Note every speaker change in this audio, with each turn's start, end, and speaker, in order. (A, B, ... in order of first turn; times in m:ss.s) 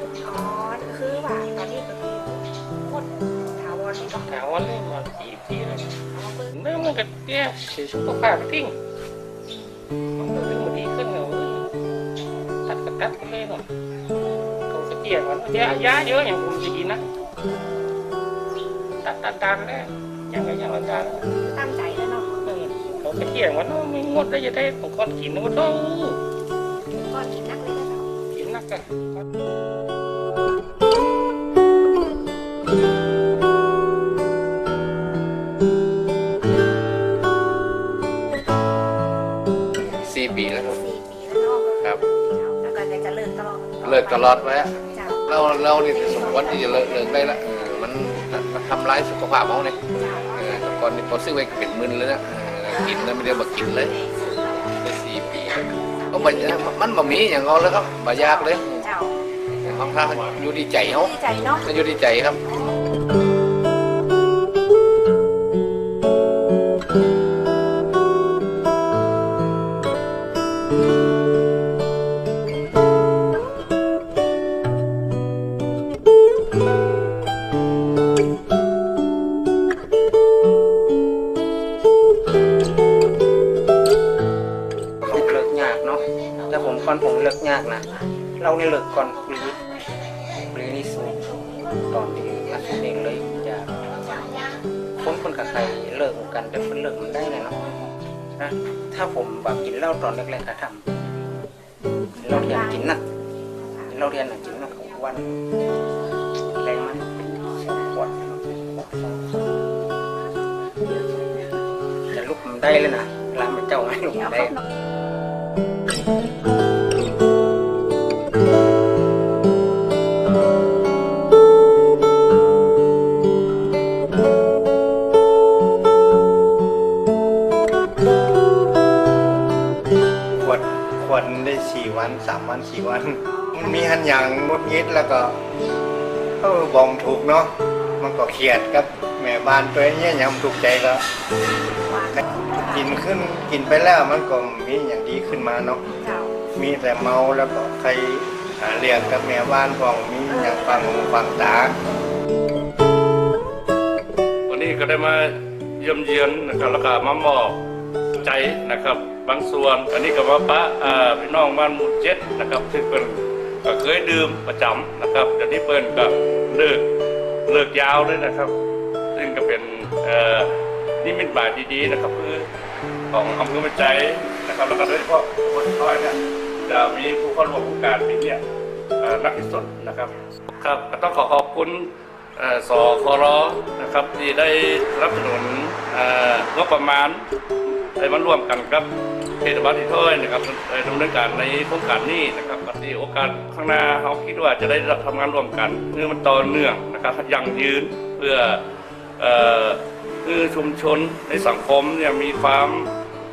0:00.2-0:04.3 A
0:04.3-0:05.9 B
0:06.2-0:06.5 A
0:06.5-0:08.7 B
0:10.2-0:11.6 B
0:12.7-0:13.6 B
0:14.7-0:17.0 B
0:19.0-0:21.2 B
0:21.3-0:22.4 A
0:22.4-0:26.2 B
0:26.9-0:28.1 A
0:28.3-0:28.8 B
0:40.1-0:40.8 C
0:40.6-0:46.8 A
0:43.8-0:44.7 C
0:45.3-0:49.8 C
0:50.0-0:50.6 A
0:50.4-0:53.9 C
0:54.8-0:55.6 C
0:56.1-0:56.7 A
0:56.1-0:58.7 C
0:58.1-0:59.1 A
0:59.6-1:01.1 C
1:00.1-1:00.3 D
1:00.8-1:01.7 A
1:01.6-1:02.4 C
1:25.0-1:29.6 E
1:30.5-1:31.2 E
1:31.9-1:34.4 E
1:35.0-1:37.6 E
1:38.4-1:41.0 E
1:42.2-1:43.0 E
1:43.8-1:45.4 E
1:46.6-1:49.3 E
1:52.1-1:54.6 E
2:10.4-2:15.4 F
2:13.3-2:13.6 A
2:16.4-2:21.0 F
2:21.8-2:22.8 A
2:22.7-2:25.8 F
2:25.9-2:26.3 A
2:26.5-2:31.8 F
2:30.4-2:30.8 A
2:34.5-2:37.6 D
2:38.2-2:46.9 D
2:47.5-2:48.5 D
2:49.1-2:50.5 D
2:51.0-2:52.5 D
2:53.1-2:58.4 D
2:59.0-3:07.2 D
3:08.0-3:08.9 D
3:09.4-3:18.6 D
3:19.2-3:22.9 D